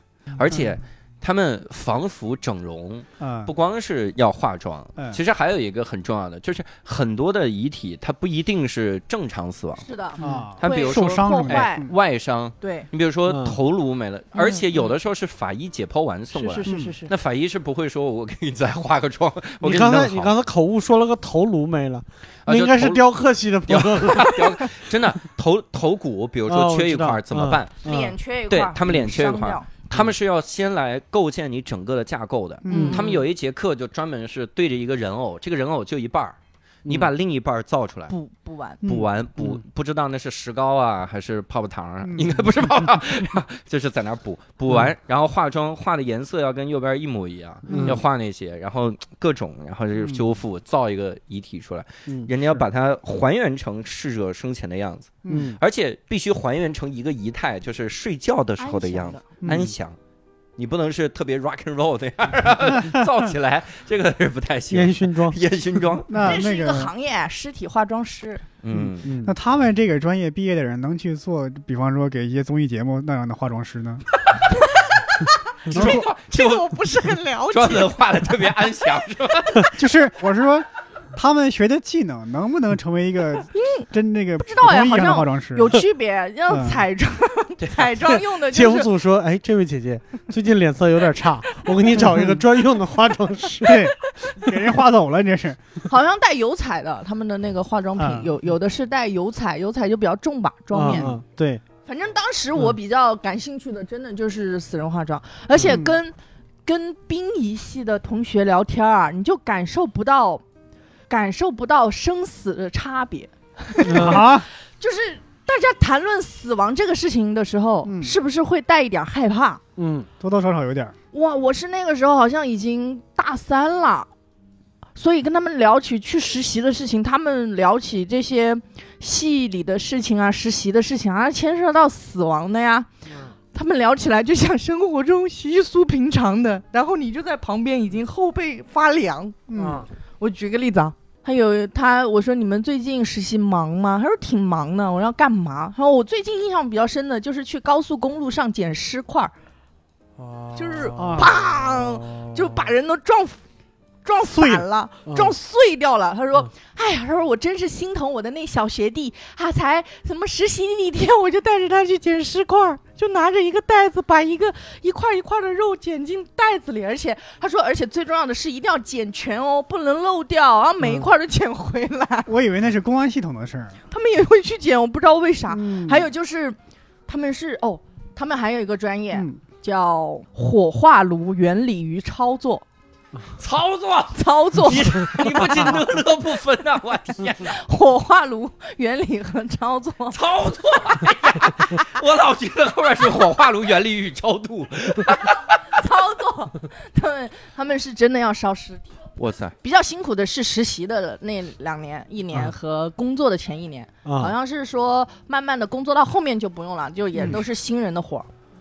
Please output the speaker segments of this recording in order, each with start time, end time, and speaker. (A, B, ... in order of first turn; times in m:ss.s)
0:00.4-0:09.8 A
0:03.2-0:03.5 B
0:09.8-0:11.9 C
0:10.2-0:11.9 B
0:10.6-0:20.3 A
0:12.6-0:12.9 C
0:13.3-0:13.6 D
0:16.3-0:17.1 C
0:16.6-0:16.9 B
0:19.6-0:24.5 D
0:22.4-0:23.0 A
0:23.7-0:27.8 A
0:26.5-0:28.2 D
0:27.8-0:29.7 C
0:28.5-0:38.1 A
0:32.6-0:33.1 B
0:32.7-0:33.2 C
0:32.7-0:33.0 D
0:36.8-0:37.1 D
0:38.1-0:38.8 C
0:38.8-0:39.1 B
0:38.8-1:00.0 A
0:47.7-0:48.0 D
0:47.7-0:48.0 B
0:52.1-0:52.3 D
0:55.2-0:55.5 B
0:55.3-0:55.6 D
0:58.6-0:59.2 C
0:59.4-0:59.7 B
1:00.6-1:06.4 A
1:04.7-1:05.4 D
1:06.1-1:06.9 B
1:06.1-1:08.4 C
1:08.6-1:09.1 A
1:08.7-1:09.3 D
1:09.2-1:14.0 B
1:14.5-1:17.9 C
1:15.7-1:16.7 A
1:15.7-1:16.0 B
1:17.5-1:19.7 A
1:19.7-1:25.8 B
1:23.6-1:23.8 C
1:24.4-1:28.9 C
1:26.5-1:26.8 B
1:27.6-1:28.1 A
1:28.5-1:33.9 D
1:32.0-1:32.4 B
1:33.6-1:35.6 B
1:35.9-1:41.1 C
1:38.0-1:38.3 B
1:40.7-1:41.6 D
1:41.8-1:46.1 C
1:45.6-1:46.0 B
1:46.6-1:50.4 C
1:51.1-1:59.6 C
1:53.8-1:54.3 D
1:53.9-1:54.5 B
1:57.8-1:58.1 B
1:59.8-2:00.1 D
2:00.2-2:00.9 B
2:01.1-2:04.1 C
2:05.0-2:12.9 C
2:13.5-2:19.4 C
2:19.5-2:19.8 B
2:19.6-2:19.9 D
2:20.2-2:29.3 C
2:30.2-2:32.4 D
2:30.5-2:33.4 C
2:31.0-2:31.3 B
2:34.0-2:52.3 C
2:34.3-2:34.6 B
2:35.1-2:35.4 D
2:52.3-2:53.8 B
2:53.9-3:02.6 C
2:55.5-2:56.1 B
3:03.4-3:07.5 A
3:04.1-3:05.7 C
3:07.4-3:10.2 C
3:10.1-3:15.6 A
3:15.7-3:18.9 C
3:19.2-3:19.5 A
3:19.6-3:28.3 C
3:24.0-3:24.3 D